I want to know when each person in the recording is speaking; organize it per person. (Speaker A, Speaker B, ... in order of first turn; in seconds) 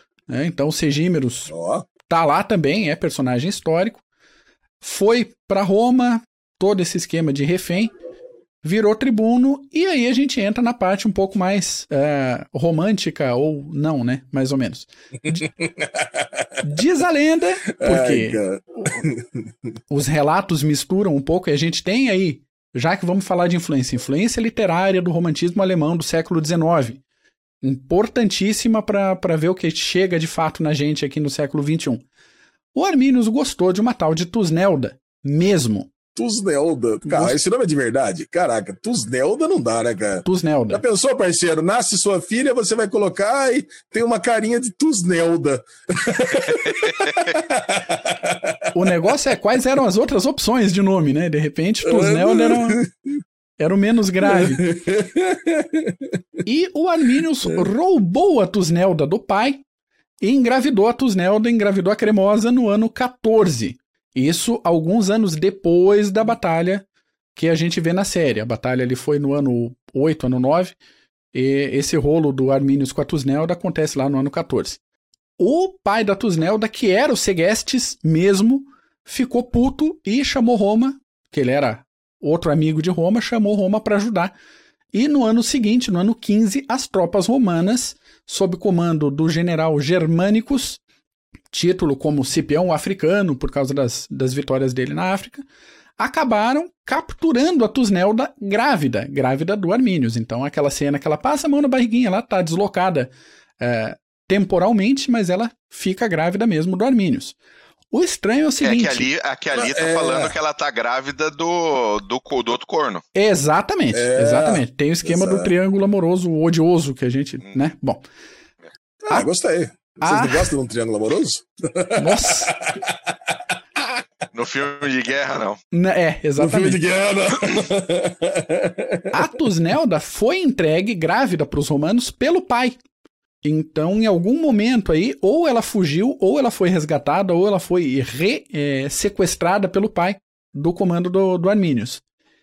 Speaker A: 0.3-1.5, 2.1-4.0, 4.8-7.9, 8.6-15.5, 16.6-19.0, 19.9-27.0, 27.6-32.0, 32.7-35.9, 37.0-37.4, 40.2-40.8, 48.7-52.8, 53.6-54.6, 56.5-59.6, 60.2-70.8, 71.3-74.8, 75.4-84.3, 84.9-90.8, 91.5-95.5, 96.0-107.4, 107.9-109.1, 113.1-118.0, 120.0-120.5, 122.0-122.5, 125.7-126.8, 129.1-132.8, 133.4-142.0
Speaker B: 1.5-1.9, 15.6-16.6, 17.8-19.4, 36.1-48.7, 51.9-52.9, 54.2-56.2, 109.5-110.4, 113.9-115.5, 119.1-123.4, 126.4-129.2
Speaker C: 108.6-113.0, 124.3-125.6